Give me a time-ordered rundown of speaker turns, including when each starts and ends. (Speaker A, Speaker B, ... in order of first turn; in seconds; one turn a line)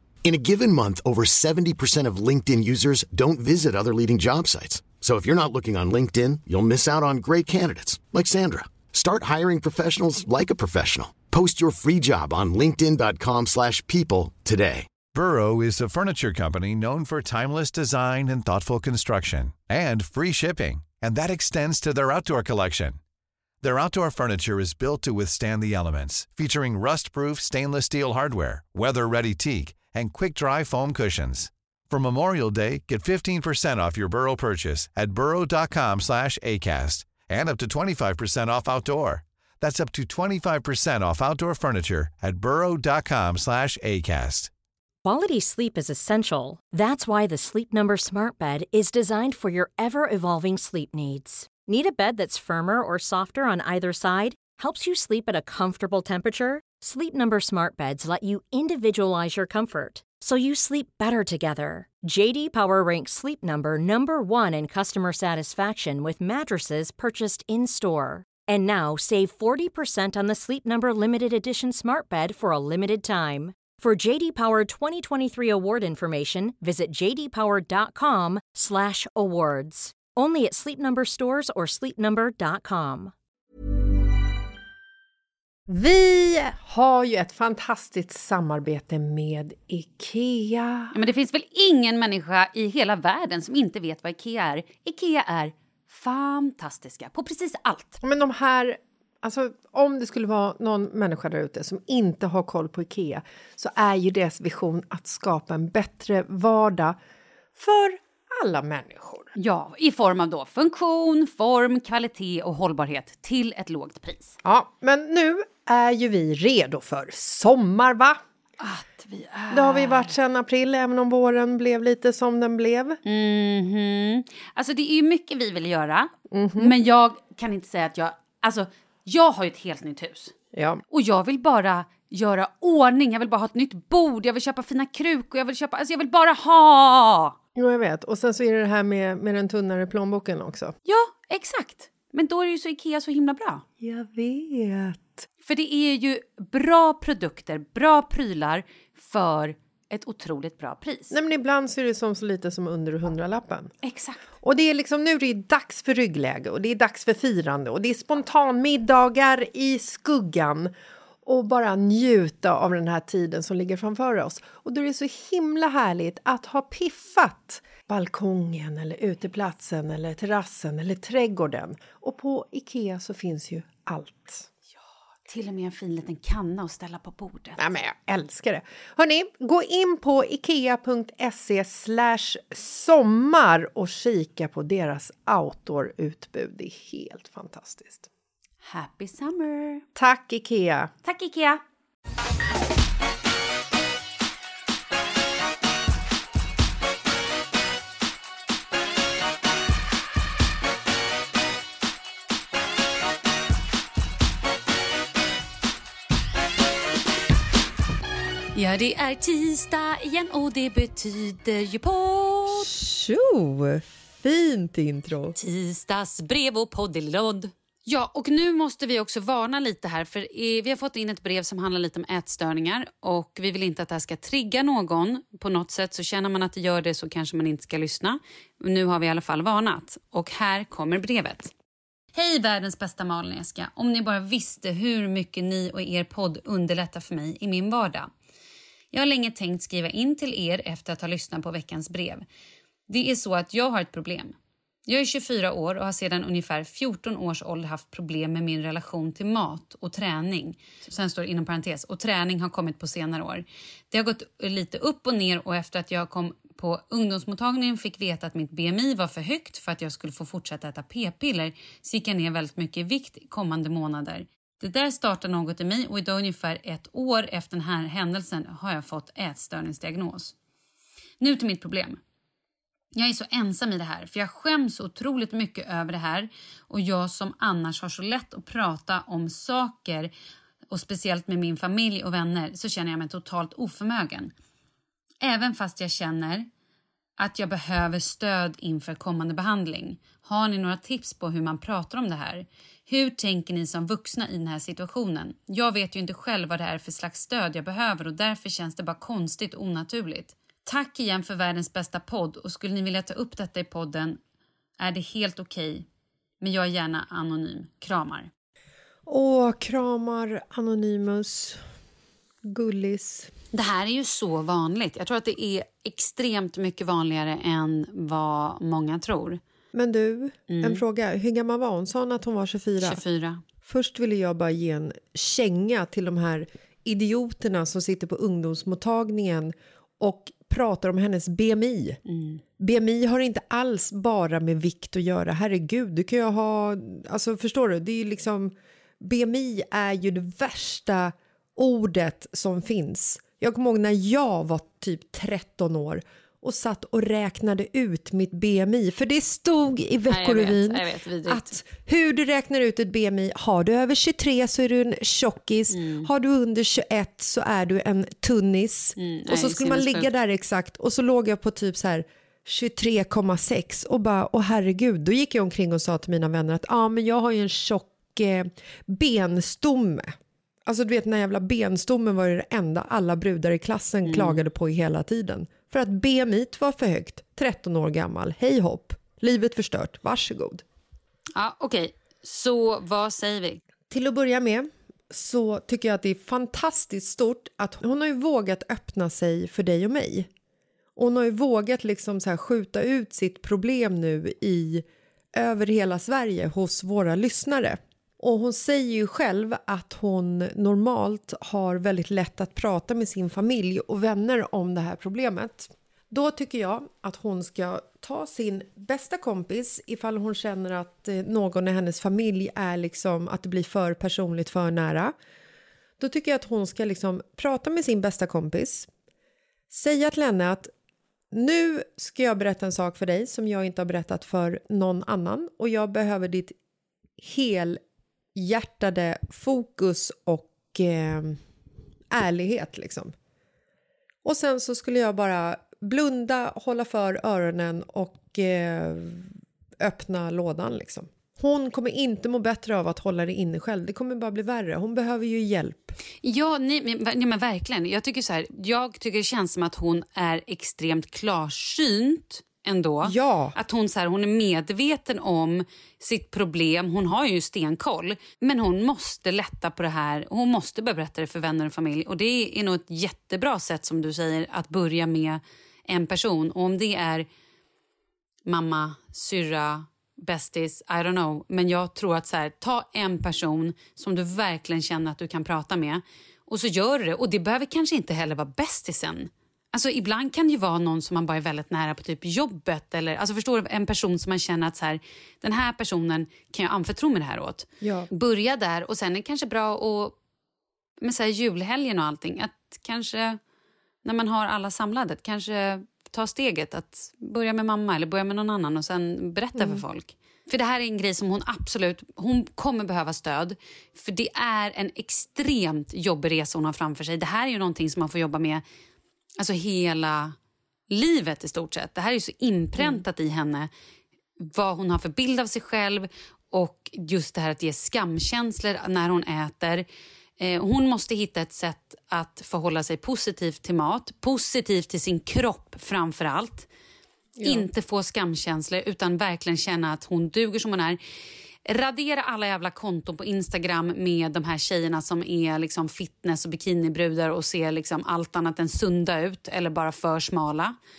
Speaker A: 0.2-14.9
Speaker B: 15.1-23.0
Speaker B: 23.6-44.5
Speaker C: 45.0-83.1
Speaker D: 85.7-90.9
Speaker E: 90.9-98.0
Speaker D: 98.0-107.0
Speaker D: 107.5-109.3
Speaker E: 109.3-114.4
Speaker D: 114.4-118.2
Speaker E: 118.6-120.1
Speaker D: 119.5-123.0
Speaker E: 123.0-130.3
Speaker D: 126.3-126.7
Speaker D: 130.5-130.8
Speaker E: 130.9-137.3
Speaker D: 137.6-140.7
Speaker E: 140.8-143.6
Speaker D: 143.8-145.2
Speaker E: 145.4-151.1
Speaker D: 151.1-153.7
Speaker E: 153.8-154.2
Speaker D: 154.4-160.7
Speaker D: 161.2-174.5
Speaker E: 175.3-177.6
Speaker D: 177.6-188.1
Speaker E: 188.6-189.8
Speaker D: 189.9-190.9
Speaker E: 191.0-191.6
Speaker E: 208.5-212.7
Speaker D: 212.5-215.3
Speaker E: 215.3-231.5
Speaker E: 232.1-238.1
Speaker E: 238.9-242.2
Speaker E: 242.9-244.3
Speaker E: 244.9-270.3
Speaker E: 271.2-272.0
Speaker E: 272.9-280.1
Speaker E: 280.7-284.3
Speaker E: 285.2-286.5
Speaker E: 287.2-304.2
Speaker E: 304.8-305.9
Speaker E: 306.4-308.3
Speaker D: 309.1-311.6
Speaker D: 312.4-313.3
Speaker E: 313.5-319.4
Speaker D: 319.7-323.0
Speaker E: 320.5-320.8
Speaker E: 322.8-323.4
Speaker D: 323.6-332.0
Speaker E: 332.1-332.4
Speaker D: 332.6-380.6
Speaker E: 350.1-351.6
Speaker E: 355.7-356.1
Speaker E: 359.0-360.1
Speaker E: 374.0-374.4
Speaker E: 381.4-383.6
Speaker D: 383.9-390.3
Speaker D: 390.9-415.1
Speaker D: 416.0-418.9
Speaker D: 419.7-420.7
Speaker D: 421.3-426.5
Speaker D: 427.2-427.8
Speaker D: 428.3-431.4
Speaker D: 432.1-433.1
Speaker D: 434.2-445.9
Speaker E: 446.2-467.3
Speaker D: 453.0-453.6
Speaker E: 468.4-490.1
Speaker D: 487.8-488.1
Speaker E: 491.0-493.4
Speaker E: 494.0-508.6
Speaker D: 499.5-499.8
Speaker E: 509.4-510.4
Speaker E: 510.9-513.7
Speaker D: 512.8-513.0
Speaker E: 514.4-519.8
Speaker E: 520.4-526.7
Speaker D: 527.4-527.7
Speaker E: 527.4-531.0
Speaker E: 531.6-540.7